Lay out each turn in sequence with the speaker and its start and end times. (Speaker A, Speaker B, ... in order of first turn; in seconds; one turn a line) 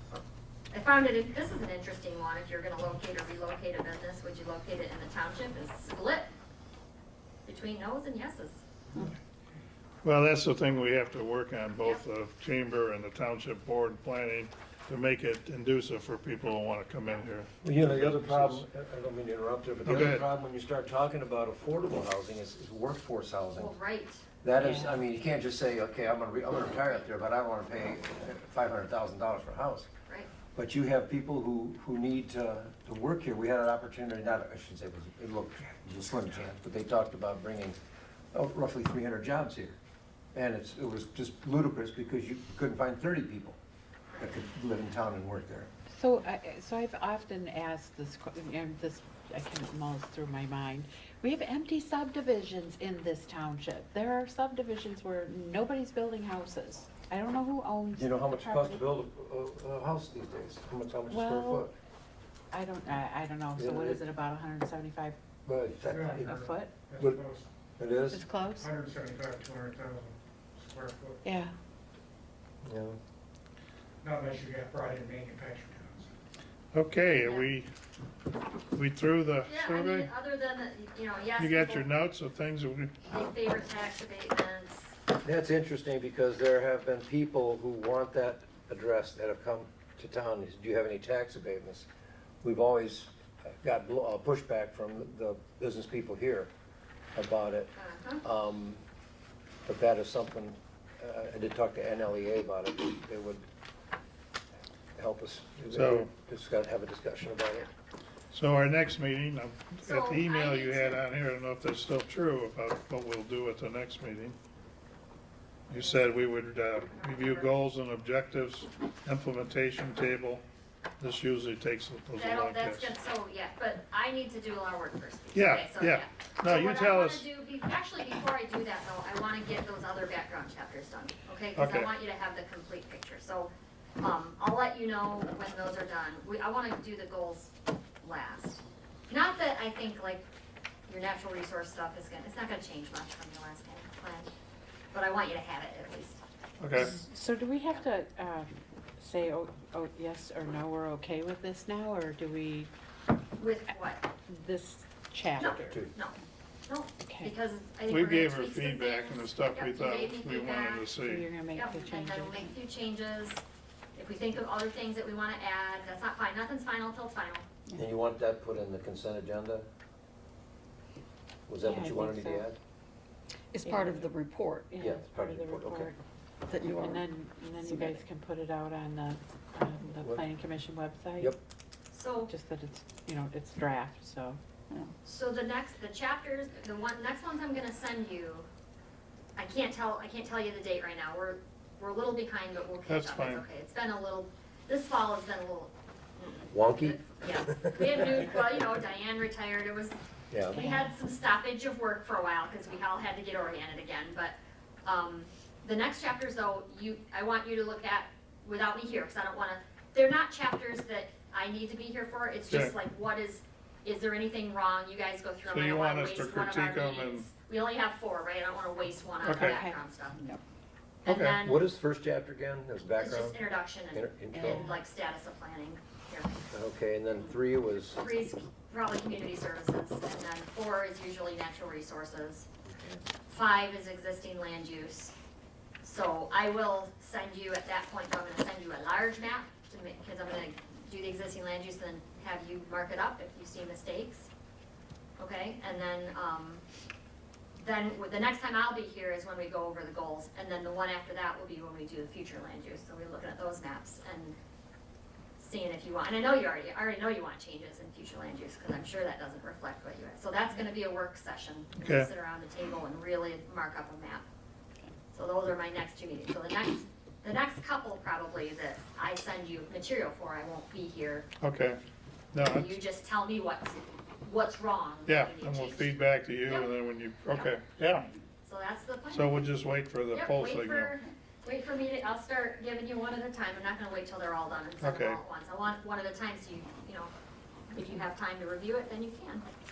Speaker A: 0.7-6.3
Speaker A: 7.5-8.6
Speaker B: 10.0-18.6
Speaker C: 17.6-23.7
Speaker B: 19.9-20.2
Speaker A: 23.6-24.2
Speaker C: 24.4-29.9
Speaker D: 24.6-24.9
Speaker C: 30.5-37.8
Speaker C: 38.3-39.8
Speaker C: 40.3-43.6
Speaker C: 44.2-45.7
Speaker D: 45.9-58.8
Speaker C: 58.0-61.7
Speaker D: 61.1-61.7
Speaker D: 62.5-65.2
Speaker C: 63.6-64.0
Speaker C: 65.5-66.4
Speaker E: 65.9-67.5
Speaker D: 66.2-66.8
Speaker C: 67.8-68.2
Speaker D: 68.1-68.7
Speaker E: 68.6-71.2
Speaker D: 71.2-71.5
Speaker C: 72.6-73.0
Speaker E: 74.0-76.1
Speaker B: 76.7-77.7
Speaker A: 77.2-77.5
Speaker B: 78.7-80.1
Speaker A: 79.5-81.9
Speaker B: 81.4-83.0
Speaker A: 83.1-84.9
Speaker C: 85.2-91.9
Speaker C: 92.4-96.5
Speaker C: 97.2-98.8
Speaker A: 97.8-98.2
Speaker C: 99.7-103.4
Speaker C: 105.0-107.7
Speaker B: 105.7-106.1
Speaker B: 108.3-114.3
Speaker A: 109.8-111.0
Speaker B: 115.7-120.4
Speaker A: 115.7-117.5
Speaker B: 121.0-123.0
Speaker A: 122.2-140.2
Speaker B: 125.3-127.3
Speaker B: 131.6-131.9
Speaker A: 140.9-144.3
Speaker A: 144.9-146.2
Speaker B: 146.6-147.0
Speaker D: 146.8-152.7
Speaker A: 153.4-154.1
Speaker D: 154.3-155.7
Speaker A: 155.3-160.9
Speaker C: 155.4-155.9
Speaker D: 157.1-157.3
Speaker B: 157.9-161.3
Speaker D: 161.1-162.5
Speaker A: 161.5-163.4
Speaker A: 164.0-167.4
Speaker C: 167.8-169.7
Speaker C: 171.5-172.6
Speaker D: 171.7-172.5
Speaker F: 173.5-174.7
Speaker D: 173.6-174.1
Speaker D: 174.7-176.0
Speaker C: 174.8-175.9
Speaker F: 176.5-178.0
Speaker D: 176.8-181.4
Speaker A: 181.9-182.3
Speaker D: 182.3-184.4
Speaker A: 185.1-188.5
Speaker A: 189.4-200.0
Speaker B: 192.9-193.4
Speaker C: 196.5-198.3
Speaker C: 200.3-200.6
Speaker A: 200.5-220.2
Speaker D: 200.6-200.9
Speaker B: 212.5-212.8
Speaker B: 215.4-217.3
Speaker B: 219.2-219.6
Speaker D: 219.3-219.8
Speaker F: 220.2-220.4
Speaker A: 221.1-221.7
Speaker B: 221.1-221.4
Speaker C: 221.4-223.4
Speaker A: 223.0-226.3
Speaker C: 223.9-224.7
Speaker D: 224.4-224.7
Speaker C: 226.5-228.0
Speaker A: 228.0-232.5
Speaker C: 232.7-233.0
Speaker A: 233.3-235.2
Speaker A: 235.8-244.3
Speaker A: 245.2-246.6
Speaker A: 247.6-254.4
Speaker A: 255.4-264.2
Speaker B: 261.8-262.1
Speaker A: 265.1-271.3
Speaker B: 271.4-271.8
Speaker B: 272.3-272.8
Speaker A: 272.4-275.9
Speaker B: 275.1-278.1
Speaker A: 278.4-279.3
Speaker B: 279.1-281.0
Speaker A: 280.1-287.1
Speaker B: 284.8-285.2
Speaker A: 287.7-289.4